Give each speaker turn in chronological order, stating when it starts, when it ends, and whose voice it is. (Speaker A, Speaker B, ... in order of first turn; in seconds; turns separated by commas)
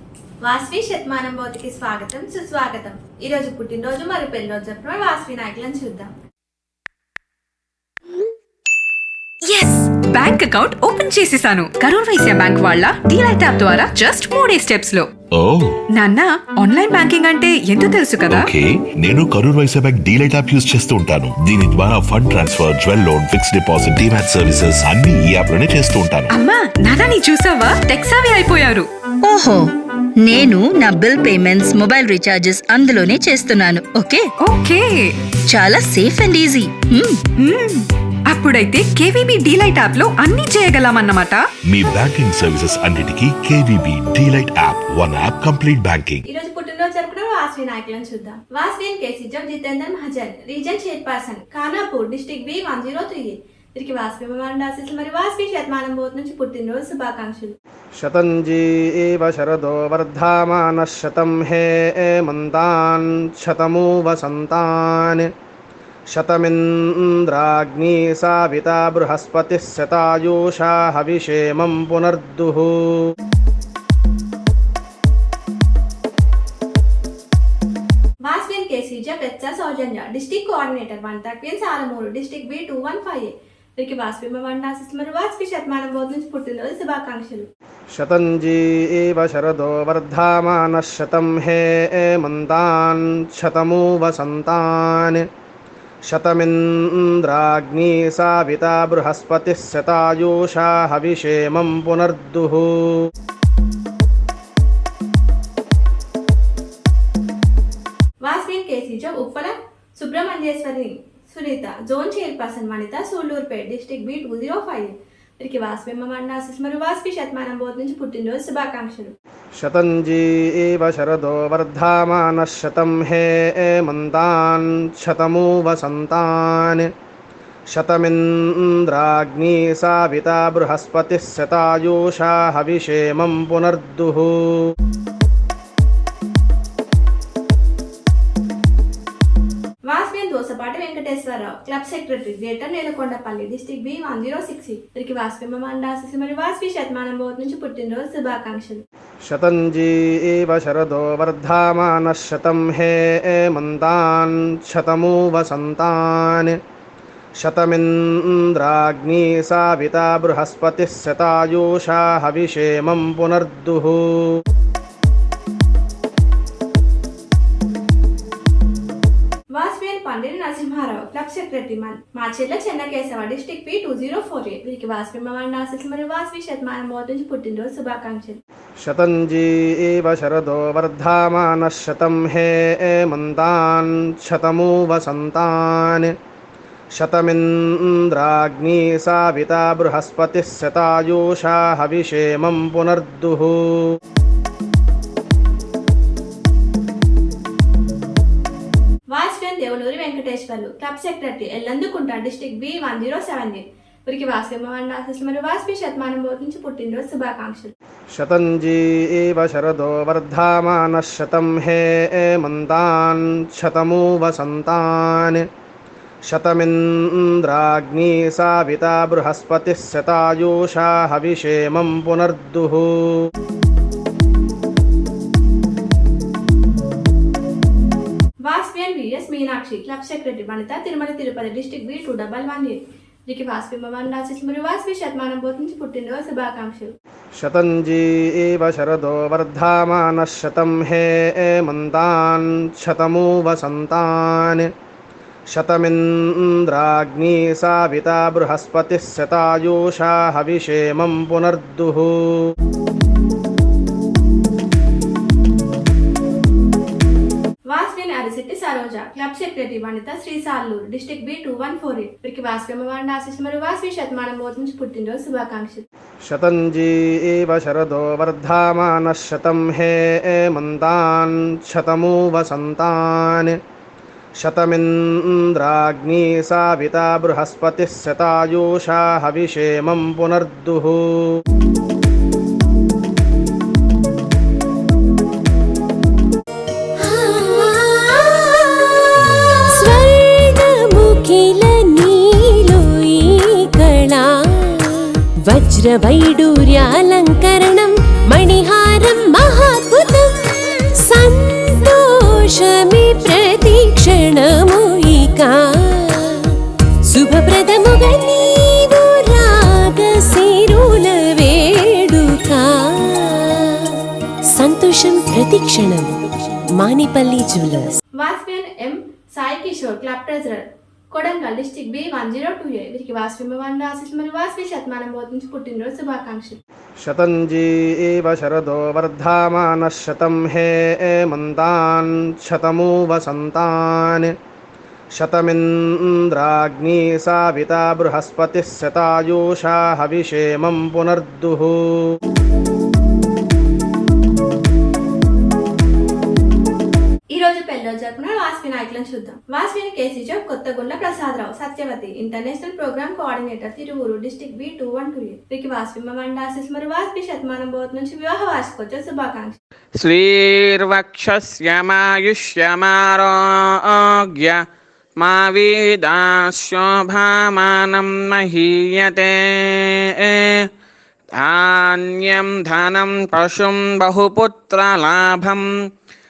Speaker A: 0.4-6.1, Speaker B: 9.5-15.1, Speaker C: 15.3-15.8, Speaker B: 15.9-18.5, Speaker C: 18.3-26.3, Speaker B: 26.3-28.9, Speaker D: 29.2-29.7, Speaker D: 30.2-34.3, Speaker B: 34.4-35.1, Speaker D: 35.5-37.2, Speaker B: 37.4-41.4, Speaker C: 41.7-46.2, Speaker A: 46.3-57.5, Speaker E: 58.0-65.3, Speaker E: 66.1-73.0, Speaker A: 78.2-87.5, Speaker E: 88.0-95.2, Speaker E: 96.1-103.0, Speaker A: 108.2-119.1, Speaker E: 119.6-126.9, Speaker E: 127.7-134.6, Speaker A: 139.9-148.8, Speaker E: 149.2-156.6, Speaker E: 157.4-164.3, Speaker A: 169.6-178.4, Speaker E: 178.8-186.1, Speaker E: 187.0-193.9, Speaker A: 199.1-207.7, Speaker E: 208.1-215.4, Speaker E: 216.3-223.2, Speaker A: 228.4-236.9, Speaker E: 237.4-244.7, Speaker E: 245.5-252.4, Speaker A: 257.7-265.8, Speaker E: 266.3-273.6, Speaker E: 274.4-281.4, Speaker F: 287.1-318.0, Speaker A: 318.2-326.6, Speaker E: 327.0-334.3, Speaker E: 335.2-342.2, Speaker A: 347.3-359.6, Speaker G: 360.0-364.6, Speaker G: 365.2-370.7, Speaker G: 371.4-375.7